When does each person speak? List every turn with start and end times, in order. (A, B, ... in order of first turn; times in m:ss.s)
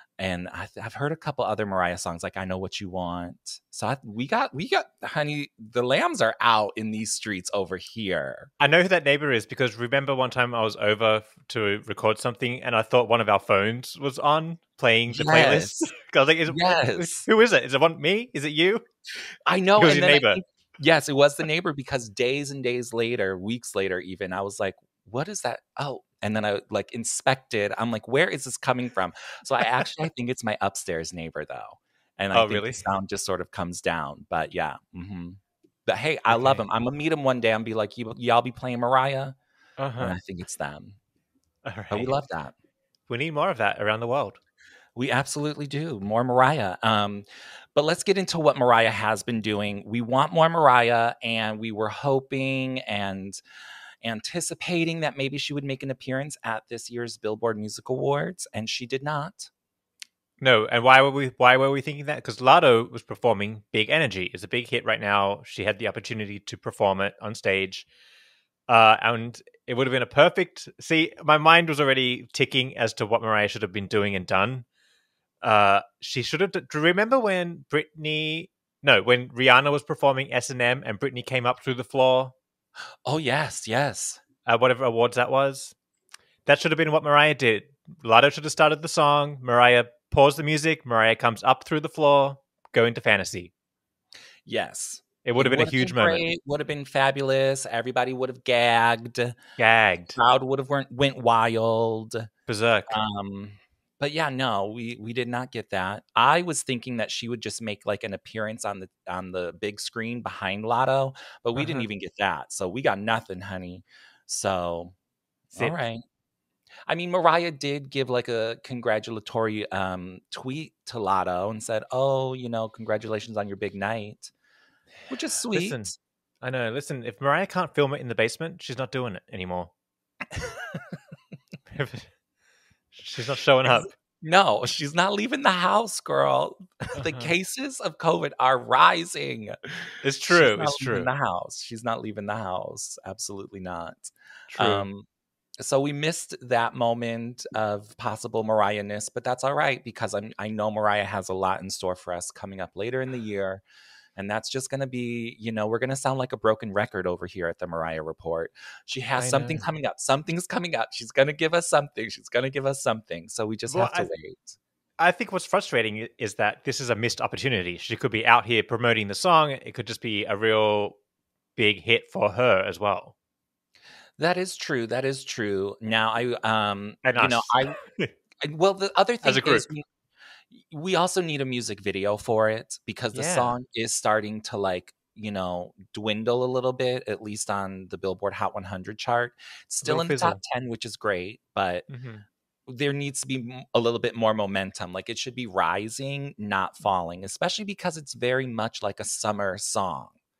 0:00.2-0:08.5 A
0:08.6-0:18.8 B
0:15.1-0:15.9 A
0:16.5-0:17.3 A
0:19.5-0:39.4 A
0:19.8-0:20.4 B
0:29.6-0:29.9 B
0:32.3-0:32.8 B
0:36.3-0:36.6 B
0:39.8-0:40.2 B
0:40.0-0:41.0 A
0:41.6-0:42.2 B
0:41.9-0:42.5 A
0:43.1-0:44.4 B
0:45.0-0:53.4 A
0:54.0-0:59.5 A
1:00.4-1:07.9 B
1:08.7-1:14.7 B
1:15.4-1:22.4 B
1:23.1-1:24.2 A
1:24.5-1:25.7 B
1:26.5-1:33.5 B
1:34.5-1:39.4 A
1:35.2-1:36.2 B
1:39.6-1:40.2 B
1:40.1-1:42.3 A
1:42.5-1:43.0 B
1:42.9-1:55.0 A
1:51.6-1:51.9 B
1:55.5-1:56.0 A
1:56.9-2:04.3 A
2:05.1-2:06.0 A
2:05.5-2:05.9 B
2:06.4-2:09.7 B
2:10.4-2:10.8 A
2:11.7-2:12.1 B
2:12.9-2:13.9 B
2:13.6-2:25.0 A
2:17.0-2:17.3 B
2:20.0-2:21.1 B
2:24.5-2:24.9 B
2:25.6-2:33.6 A
2:34.2-2:44.6 A
2:39.2-2:39.7 B
2:43.7-2:44.1 B
2:45.0-2:51.0 B
2:51.6-2:53.1 B
2:54.2-2:57.8 A
2:57.0-2:58.1 B
2:58.4-2:59.8 A
2:59.2-2:59.7 B
3:00.5-3:11.9 A
3:03.1-3:03.6 B
3:09.8-3:10.4 B
3:11.9-3:12.2 B
3:12.7-3:20.2 A